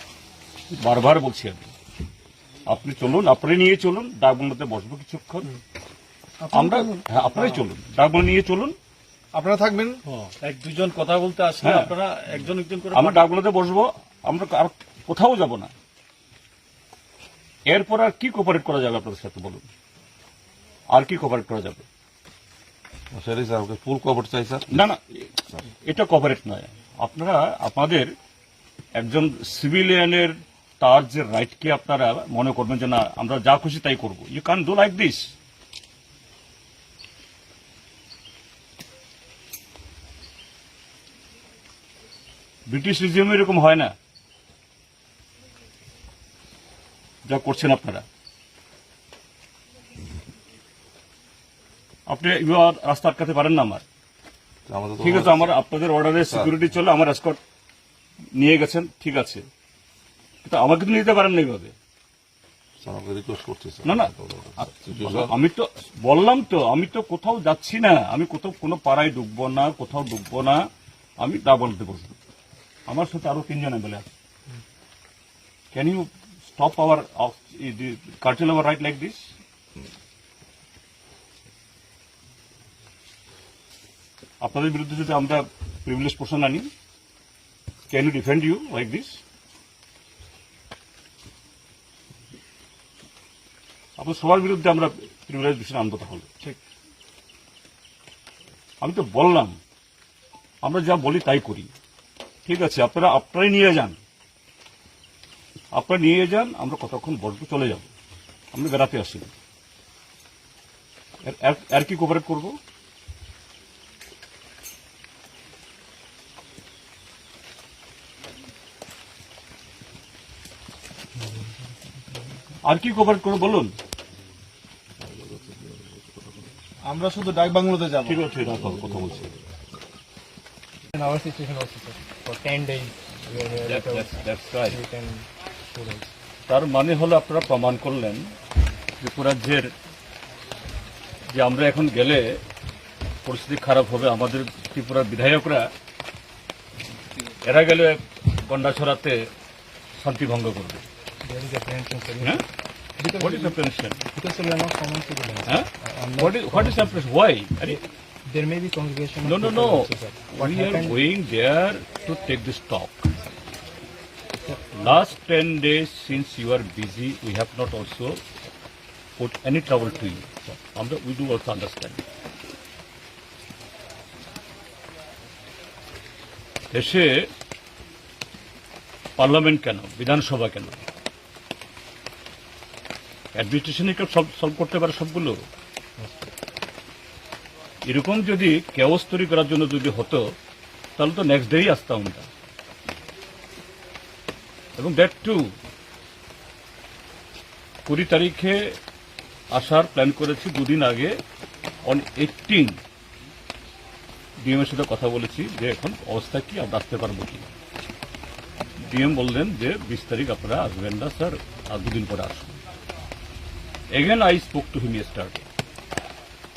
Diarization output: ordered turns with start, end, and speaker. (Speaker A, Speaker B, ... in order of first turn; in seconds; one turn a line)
Speaker A: 0.7-1.7
Speaker A: 2.7-5.5
Speaker B: 6.5-7.6
Speaker A: 6.5-8.8
Speaker B: 9.3-10.0
Speaker C: 10.1-12.8
Speaker B: 10.6-13.2
Speaker A: 11.6-11.9
Speaker A: 12.9-15.7
Speaker A: 17.7-19.6
Speaker A: 20.9-21.9
Speaker D: 23.1-24.8
Speaker A: 24.7-25.3
Speaker A: 25.8-28.1
Speaker A: 28.9-35.3
Speaker A: 42.7-43.9
Speaker A: 47.2-48.0
Speaker A: 52.1-53.8
Speaker D: 54.7-55.5
Speaker A: 55.0-57.4
Speaker D: 56.3-56.5
Speaker A: 58.3-59.5
Speaker A: 60.4-61.7
Speaker D: 62.8-65.3
Speaker A: 63.8-70.6
Speaker A: 71.2-72.1
Speaker A: 72.9-74.1
Speaker A: 75.7-79.3
Speaker A: 84.4-86.7
Speaker A: 87.9-89.2
Speaker A: 94.0-96.3
Speaker A: 98.8-99.6
Speaker A: 100.6-101.7
Speaker A: 102.5-104.0
Speaker A: 105.7-107.9
Speaker A: 108.5-109.3
Speaker A: 111.2-112.5
Speaker A: 122.6-123.7
Speaker D: 125.2-125.8
Speaker B: 126.8-128.2
Speaker A: 128.0-129.3
Speaker E: 130.9-136.1
Speaker A: 133.6-134.8
Speaker A: 136.5-138.3
Speaker A: 139.0-139.7
Speaker A: 141.3-142.4
Speaker A: 143.2-145.7
Speaker A: 147.4-149.3
Speaker A: 149.9-150.8
Speaker E: 151.2-152.4
Speaker E: 153.0-157.0
Speaker A: 153.1-154.0
Speaker A: 155.4-157.8
Speaker E: 157.6-161.1
Speaker A: 159.2-163.1
Speaker E: 164.5-164.9
Speaker A: 164.7-168.2
Speaker A: 169.2-172.0
Speaker A: 176.7-177.3
Speaker A: 179.2-180.8
Speaker A: 183.3-185.4
Speaker A: 187.8-190.2
Speaker A: 191.0-192.3
Speaker A: 194.8-195.5
Speaker A: 197.8-198.8
Speaker A: 199.5-201.2
Speaker A: 201.8-202.8
Speaker A: 204.4-207.5
Speaker A: 208.8-212.6
Speaker A: 213.9-215.4